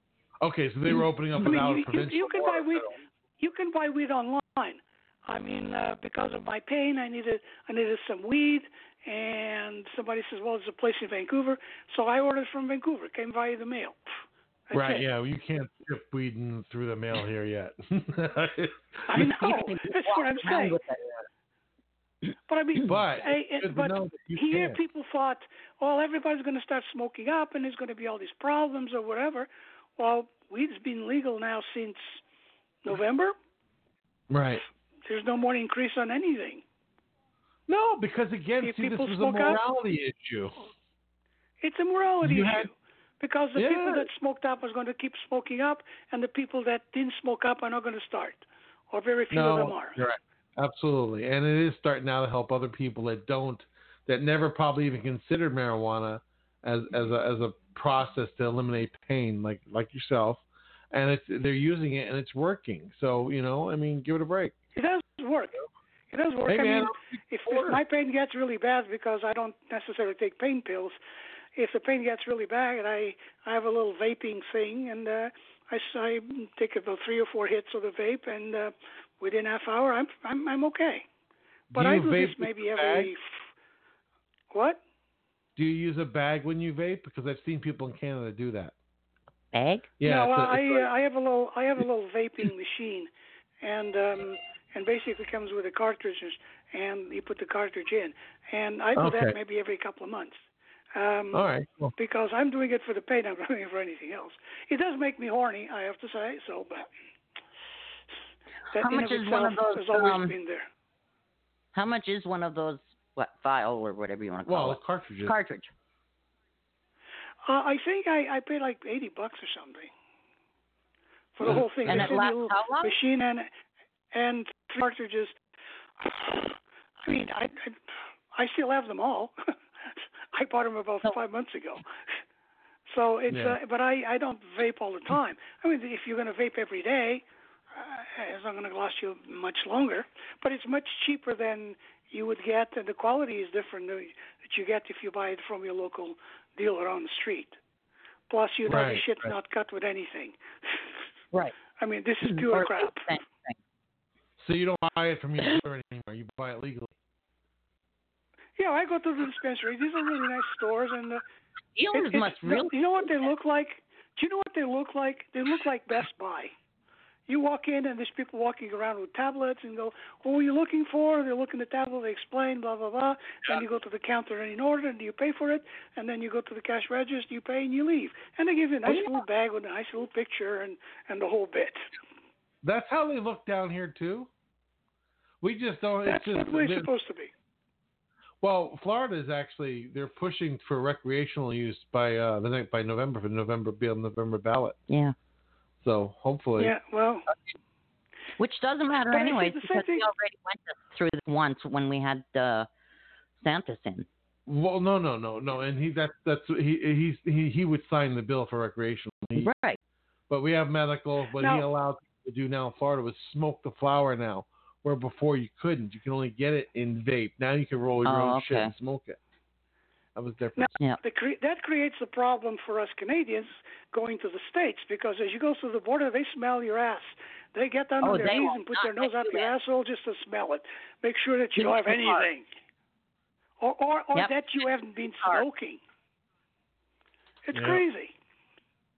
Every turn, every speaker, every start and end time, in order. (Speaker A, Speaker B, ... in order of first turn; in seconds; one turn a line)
Speaker A: 0.4-2.9
Speaker B: 1.4-14.0
Speaker B: 14.7-15.1
Speaker A: 14.7-19.5
Speaker B: 19.1-20.8
Speaker C: 19.2-21.1
Speaker B: 22.5-32.2
Speaker A: 22.9-24.8
Speaker B: 32.8-33.3
Speaker A: 34.3-34.6
Speaker B: 35.0-36.6
Speaker A: 37.7-40.5
Speaker B: 38.6-39.6
Speaker B: 41.6-50.0
Speaker A: 42.2-42.7
Speaker A: 43.5-44.1
Speaker A: 49.3-64.5
Speaker B: 64.7-65.6
Speaker B: 66.1-71.0
Speaker A: 66.5-67.8
Speaker B: 71.5-81.0
Speaker A: 81.7-83.1
Speaker B: 81.7-83.4
Speaker B: 84.5-84.8
Speaker A: 85.5-88.7
Speaker C: 89.5-89.9
Speaker A: 90.0-90.9
Speaker B: 90.0-93.1
Speaker B: 93.6-100.4
Speaker A: 99.0-99.4
Speaker B: 100.9-106.9
Speaker A: 101.3-101.9
Speaker B: 108.7-110.7
Speaker C: 108.8-110.3
Speaker C: 111.7-115.7
Speaker A: 114.5-115.4
Speaker B: 117.5-119.9
Speaker B: 121.4-123.5
Speaker A: 121.4-122.1
Speaker C: 121.8-122.9
Speaker B: 124.1-125.3
Speaker B: 126.0-127.8
Speaker B: 128.3-129.3
Speaker B: 129.9-131.8
Speaker B: 132.9-147.6
Speaker A: 133.3-133.6
Speaker B: 148.3-150.9
Speaker A: 148.7-149.3
Speaker B: 151.8-153.1
Speaker C: 152.2-153.6
Speaker A: 154.4-156.9
Speaker B: 158.6-161.2
Speaker C: 161.7-163.1
Speaker B: 161.9-166.5
Speaker B: 167.3-181.8
Speaker A: 178.9-179.2
Speaker A: 182.6-184.3
Speaker A: 185.4-186.9
Speaker B: 186.0-187.3
Speaker A: 188.4-194.8
Speaker C: 194.9-195.1
Speaker A: 195.8-196.7
Speaker B: 196.6-197.2
Speaker C: 198.4-202.7
Speaker B: 199.1-200.1
Speaker C: 203.4-204.1
Speaker A: 204.5-209.5
Speaker C: 209.4-209.8
Speaker A: 210.3-219.2
Speaker B: 211.4-211.7
Speaker C: 218.0-218.7
Speaker A: 220.1-220.7
Speaker B: 220.6-232.5
Speaker C: 228.0-229.5
Speaker C: 231.6-232.2
Speaker B: 233.6-235.8
Speaker B: 237.4-238.1
Speaker A: 237.5-237.8